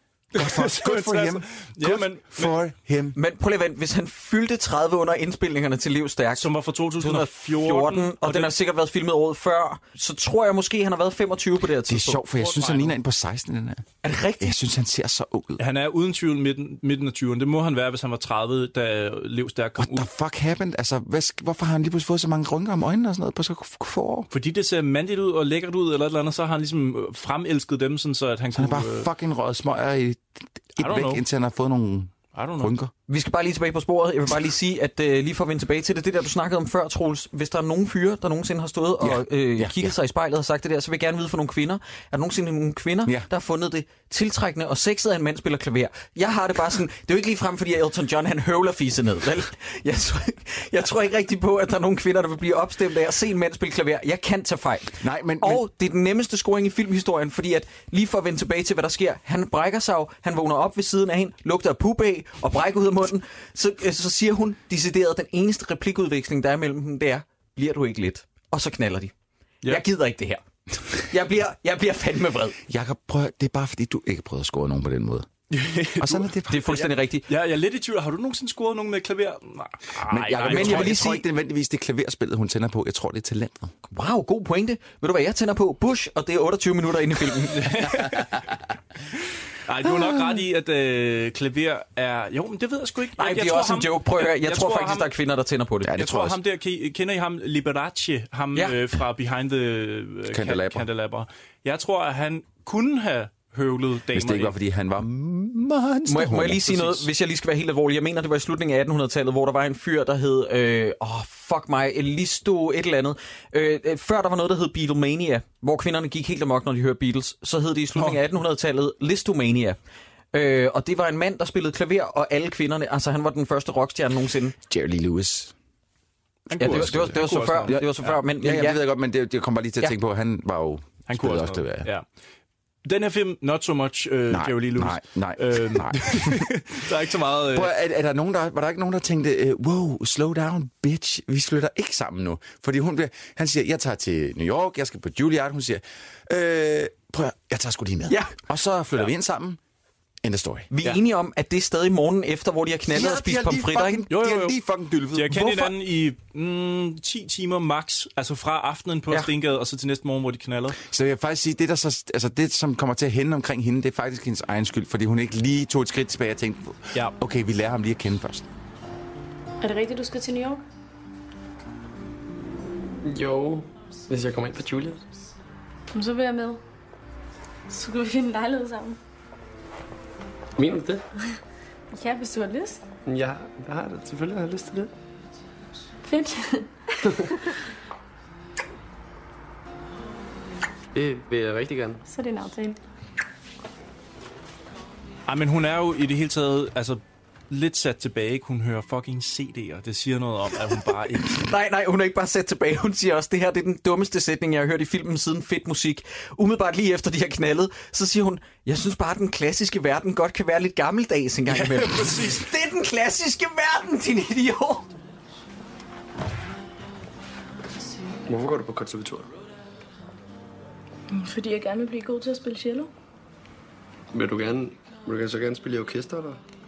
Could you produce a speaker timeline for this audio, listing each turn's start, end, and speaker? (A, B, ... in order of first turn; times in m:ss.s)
0:00.3-0:02.6 A
0:00.3-0:03.2 B
0:03.2-0:12.3 C
0:06.4-0:08.5 A
0:11.9-0:13.8 B
0:12.4-0:12.9 A
0:14.0-0:14.6 C
0:14.4-0:15.6 B
0:15.6-0:20.1 A
0:19.8-0:24.3 B
0:24.3-0:29.1 A
0:28.5-0:32.9 B
0:30.8-0:31.2 A
0:32.3-0:32.7 A
0:33.1-1:09.1 C
0:39.0-0:39.9 B
0:55.0-0:55.6 B
1:09.6-1:10.4 C
1:10.9-1:12.6 C
1:12.7-1:15.3 B
1:15.5-1:21.0 A
1:16.0-1:16.8 B
1:16.5-1:17.3 C
1:20.0-1:23.7 B
1:20.4-1:21.2 C
1:23.9-1:28.0 C
1:27.4-1:28.5 A
1:29.7-1:35.1 A
1:33.2-1:36.0 C
1:35.8-1:36.4 B
1:36.0-1:44.5 A
1:40.3-1:40.9 B
1:44.1-1:46.8 B
1:46.1-1:59.8 C
2:00.3-2:04.6 C
2:04.7-2:05.5 B
2:06.5-2:08.2 A
2:06.6-2:08.8 C
2:06.6-2:11.9 B
2:11.1-2:12.0 A
2:12.8-2:17.7 A
2:14.3-2:16.5 B
2:17.5-2:29.6 B
2:28.1-2:28.3 C
2:30.2-2:30.7 B
2:30.7-2:34.0 C
2:32.9-2:35.7 B
2:34.1-2:34.6 A
2:35.1-2:40.8 A
2:40.8-2:48.5 B
2:49.6-2:50.6 D
2:53.0-2:55.0 E
2:55.9-2:56.6 D
2:57.7-2:59.0 D
3:00.6-3:01.0 E
3:01.9-3:02.8 D
3:03.1-3:04.9 E
3:06.0-3:06.8 D
3:11.0-3:12.0 E
3:12.1-3:12.8 D
3:15.3-3:21.5 A
3:21.3-3:34.9 C
3:31.5-3:32.5 A
3:38.3-3:39.3 E
3:41.1-3:42.9 D
3:44.1-3:46.4 E